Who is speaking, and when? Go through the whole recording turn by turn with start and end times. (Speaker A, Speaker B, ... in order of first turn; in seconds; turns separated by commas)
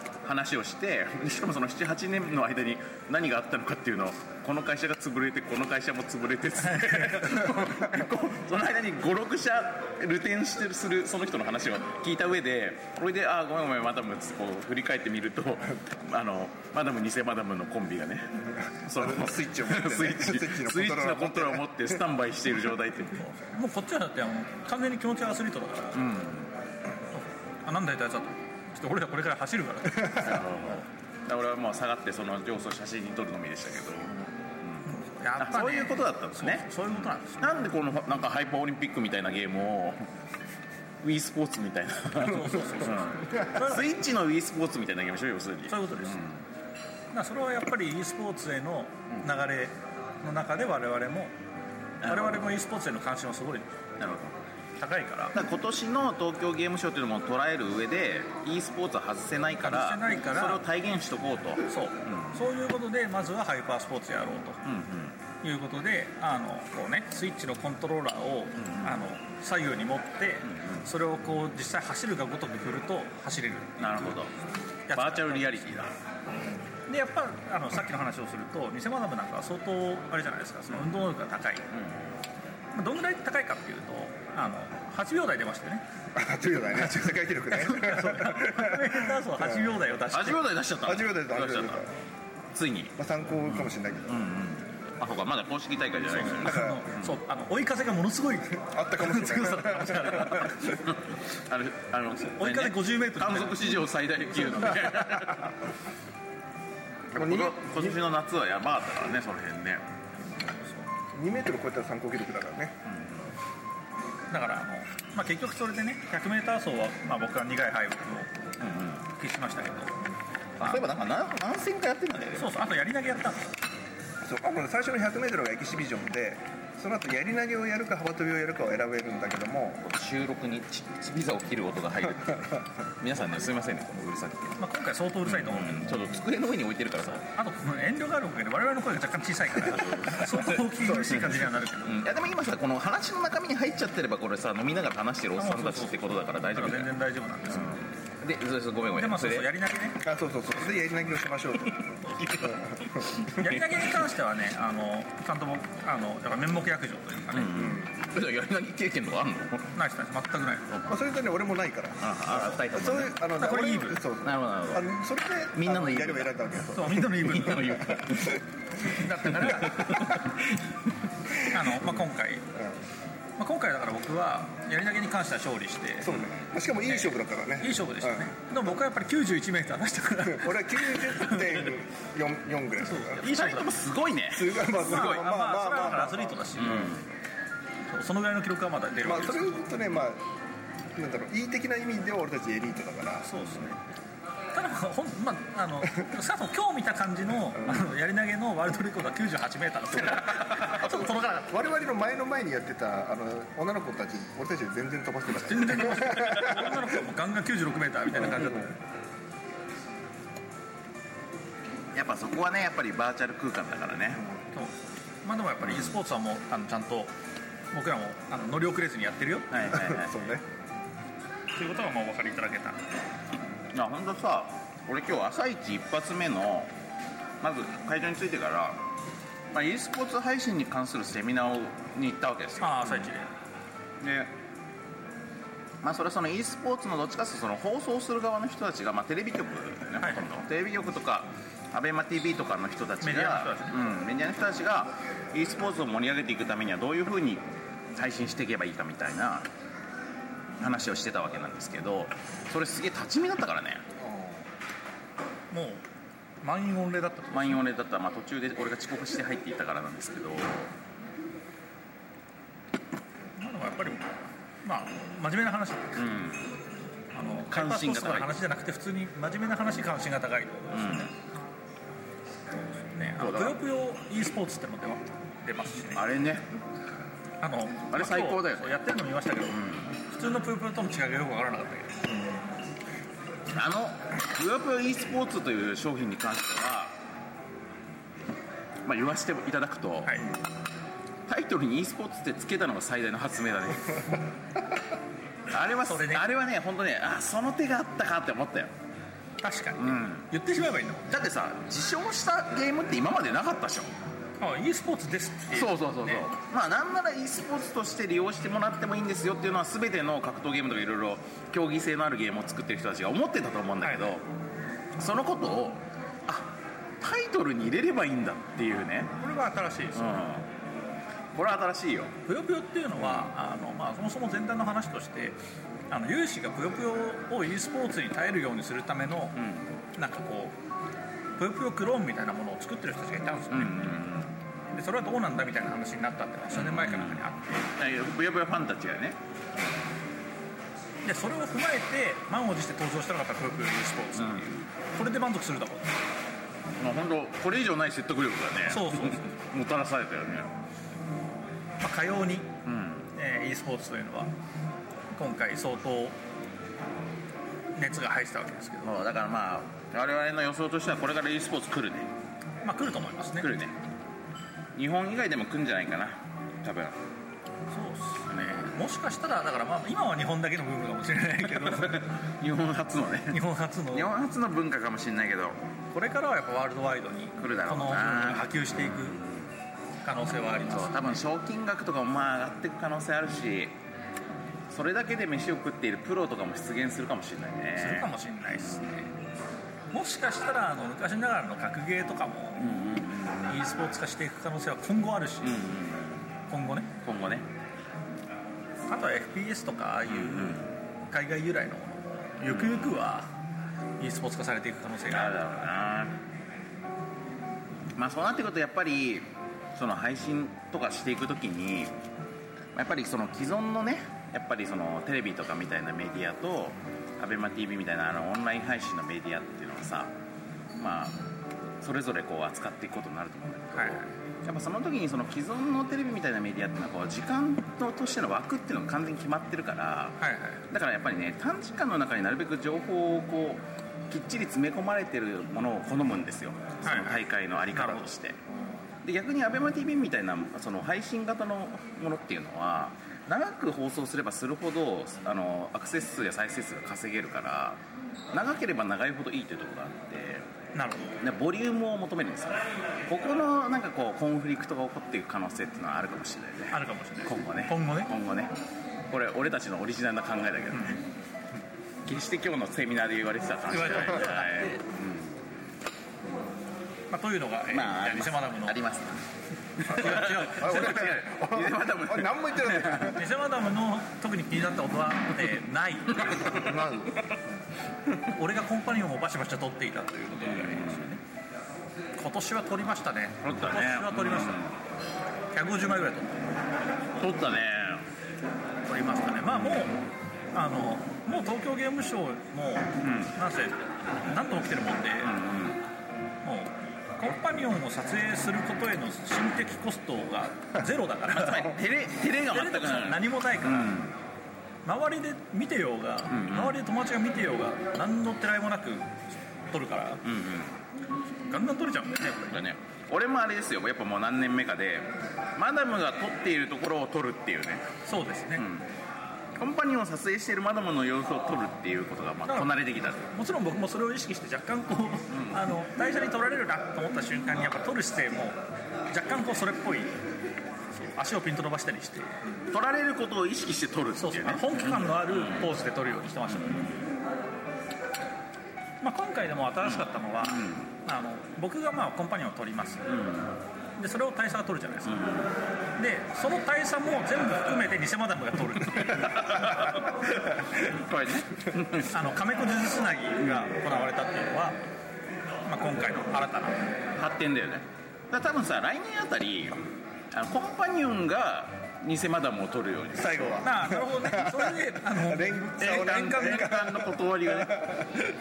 Speaker A: 0.2-23.2, Speaker B: 6.7-7.2, Speaker C: 18.9-22.0, Speaker B: 23.2-26.0, Speaker A: 25.9-26.5, Speaker B: 27.1-30.4, Speaker A: 30.1-34.9, Speaker B: 34.9-37.5, Speaker A: 35.4-40.0, Speaker A: 41.0-46.4, Speaker B: 42.1-43.8, Speaker B: 45.7-46.2, Speaker B: 47.1-51.3, Speaker A: 52.0-52.5, Speaker B: 52.0-53.7, Speaker A: 54.0-54.4, Speaker B: 54.8-55.4, Speaker A: 55.4-62.4, Speaker B: 59.6-60.6, Speaker B: 61.7-64.6, Speaker A: 64.7-65.2, Speaker B: 65.4-74.2, Speaker A: 68.6-69.0, Speaker A: 70.5-70.9, Speaker A: 73.8-74.3, Speaker B: 74.9-75.7, Speaker A: 74.9-75.9, Speaker B: 76.9-81.7, Speaker A: 81.7-82.1, Speaker B: 82.7-85.8, Speaker C: 86.2-89.8, Speaker B: 87.5-90.4, Speaker A: 90.1-91.8, Speaker C: 90.8-91.9, Speaker A: 92.5-93.0, Speaker C: 93.0-94.2, Speaker A: 93.5-97.2, Speaker B: 96.0-100.8, Speaker C: 96.5-96.7, Speaker C: 98.6-100.5, Speaker A: 100.8-105.5, Speaker B: 102.4-103.8, Speaker A: 107.1-109.8, Speaker C: 107.2-108.0, Speaker C: 111.1-112.8, Speaker A: 112.8-113.3, Speaker B: 114.3-118.3, Speaker A: 118.6-119.0, Speaker B: 119.1-120.0, Speaker A: 120.6-122.5, Speaker B: 122.4-123.5, Speaker C: 124.2-129.8, Speaker A: 129.8-134.6, Speaker B: 134.6-135.9, Speaker A: 135.2-137.3, Speaker B: 137.4-142.1, Speaker A: 139.6-141.3, Speaker C: 140.8-141.2, Speaker A: 141.9-146.9, Speaker B: 145.4-146.0, Speaker B: 146.5-147.9, Speaker A: 147.5-149.5, Speaker B: 148.9-150.0, Speaker C: 150.0-151.9, Speaker A: 151.6-153.8, Speaker B: 153.2-157.6, Speaker A: 157.3-159.7, Speaker C: 157.6-157.9, Speaker B: 159.7-160.8, Speaker C: 160.9-167.4, Speaker A: 162.0-163.2, Speaker B: 163.3-164.1, Speaker A: 164.2-164.9, Speaker A: 165.6-166.5, Speaker B: 166.7-167.8, Speaker A: 167.2-168.4, Speaker B: 168.8-170.2, Speaker A: 169.1-170.7, Speaker B: 171.5-172.5, Speaker B: 173.4-176.2, Speaker C: 176.1-178.3, Speaker B: 176.9-181.6, Speaker C: 180.3-183.2, Speaker B: 182.8-183.7, Speaker A: 183.2-185.3, Speaker C: 184.3-186.4, Speaker B: 184.8-186.9, Speaker A: 186.6-187.0, Speaker B: 187.9-189.7, Speaker C: 189.0-190.3, Speaker C: 190.9-193.4, Speaker B: 193.2-193.8, Speaker B: 194.5-201.6, Speaker C: 200.7-206.6, Speaker B: 205.4-208.7, Speaker C: 208.2-208.7, Speaker A: 211.9-214.2, Speaker B: 214.5-217.1, Speaker A: 215.6-216.0, Speaker B: 217.7-219.5, Speaker A: 219.5-220.2, Speaker C: 219.7-220.4, Speaker B: 221.6-222.8, Speaker A: 223.7-226.7, Speaker A: 227.4-228.8, Speaker A: 229.5-233.0, Speaker B: 232.6-233.3, Speaker A: 234.0-234.3, Speaker A: 235.8-247.4, Speaker B: 240.0-240.3, Speaker B: 243.0-243.8, Speaker A: 247.9-249.5, Speaker A: 250.6-253.8, Speaker C: 254.0-254.4, Speaker B: 255.5-255.8, Speaker B: 256.4-257.6, Speaker A: 257.3-260.7, Speaker B: 263.4-264.1, Speaker B: 264.6-266.0, Speaker A: 266.0-266.5, Speaker B: 267.1-271.1, Speaker A: 267.5-268.3, Speaker A: 270.7-271.1, Speaker B: 272.6-276.0, Speaker A: 273.2-273.6, Speaker A: 275.9-276.5, Speaker B: 277.4-282.1, Speaker A: 277.9-278.6, Speaker A: 279.5-279.9, Speaker A: 283.5-286.9, Speaker A: 288.9-290.3, Speaker A: 291.3-294.2, Speaker A: 295.5-298.7, Speaker B: 295.9-296.3, Speaker B: 299.4-301.1, Speaker A: 299.8-300.3, Speaker A: 301.1-303.9, Speaker B: 304.4-306.2, Speaker A: 305.5-314.2, Speaker B: 313.8-314.1, Speaker A: 315.0-319.1, Speaker B: 319.2-320.2, Speaker A: 319.9-320.5, Speaker A: 321.4-322.1, Speaker B: 322.3-325.4, Speaker A: 323.0-323.3, Speaker B: 325.9-329.4, Speaker A: 329.4-329.7, Speaker B: 330.0-330.6, Speaker B: 331.4-334.0, Speaker A: 333.5-334.3, Speaker B: 334.7-337.7, Speaker A: 336.5-339.2, Speaker B: 341.0-345.9, Speaker A: 344.2-344.4, Speaker A: 346.8-350.5, Speaker B: 348.7-349.4, Speaker B: 351.8-352.5, Speaker A: 352.6-353.1, Speaker B: 353.1-354.3, Speaker B: 355.1-356.2, Speaker B: 357.8-359.0, Speaker A: 358.8-362.1, Speaker B: 362.6-363.5, Speaker A: 363.4-363.8, Speaker A: 364.8-366.9, Speaker B: 367.7-372.1, Speaker A: 368.3-368.7, Speaker A: 371.5-373.4, Speaker B: 373.3-374.1, Speaker A: 373.9-375.6, Speaker B: 375.9-379.2, Speaker A: 377.4-379.4, Speaker B: 380.0-381.1, Speaker A: 380.6-383.8, Speaker A: 384.7-389.0, Speaker B: 387.8-389.1, Speaker B: 389.9-392.8, Speaker A: 392.6-393.6, Speaker B: 393.5-395.7, Speaker A: 395.4-396.2, Speaker B: 396.5-396.9, Speaker A: 397.0-397.5, Speaker B: 398.9-403.3, Speaker A: 400.1-400.7, Speaker A: 402.5-403.0, Speaker B: 404.0-405.4, Speaker A: 405.1-406.1, Speaker A: 408.0-411.9, Speaker A: 412.8-420.1, Speaker A: 420.8-421.2, Speaker A: 421.8-430.2, Speaker B: 423.8-424.1, Speaker B: 430.2-430.6, Speaker A: 430.7-438.4, Speaker B: 436.8-437.2, Speaker B: 437.7-438.1, Speaker A: 439.0-447.8, Speaker A: 448.3-450.4, Speaker B: 450.8-451.2, Speaker A: 451.2-458.5, Speaker B: 456.7-458.1, Speaker A: 459.1-461.0, Speaker B: 460.7-461.0, Speaker A: 462.1-465.4, Speaker B: 463.7-464.8, Speaker B: 467.1-468.8, Speaker A: 467.7-469.2, Speaker A: 469.8-473.2, Speaker B: 469.8-471.1, Speaker C: 470.5-473.2, Speaker B: 473.1-476.4, Speaker A: 476.2-476.6, Speaker C: 476.2-477.2, Speaker B: 478.3-481.2, Speaker A: 480.4-481.1, Speaker B: 482.2-484.6, Speaker A: 483.4-484.7, Speaker B: 485.5-486.4, Speaker A: 487.2-488.0, Speaker B: 488.9-490.0, Speaker B: 490.5-495.3, Speaker A: 493.0-493.3, Speaker A: 495.2-495.8, Speaker B: 496.4-501.8, Speaker A: 501.3-504.1, Speaker B: 502.5-504.0, Speaker B: 504.9-510.2, Speaker A: 506.3-506.8, Speaker A: 510.2-510.8, Speaker B: 511.5-512.6, Speaker A: 512.5-517.9, Speaker B: 518.1-518.7, Speaker A: 518.6-518.9, Speaker A: 519.6-523.2, Speaker B: 522.5-528.6, Speaker A: 525.3-525.6, Speaker B: 529.1-530.1, Speaker B: 530.9-532.4, Speaker A: 532.7-535.7, Speaker B: 534.2-536.9, Speaker A: 536.5-537.0, Speaker B: 539.0-543.1, Speaker A: 540.5-540.9, Speaker A: 543.1-543.6, Speaker B: 544.0-545.2, Speaker A: 545.1-545.5, Speaker B: 546.0-549.9, Speaker A: 549.1-552.1, Speaker B: 552.1-554.8, Speaker B: 555.7-556.9, Speaker A: 557.2-563.6, Speaker C: 563.1-568.1, Speaker B: 563.6-566.6, Speaker A: 565.8-568.0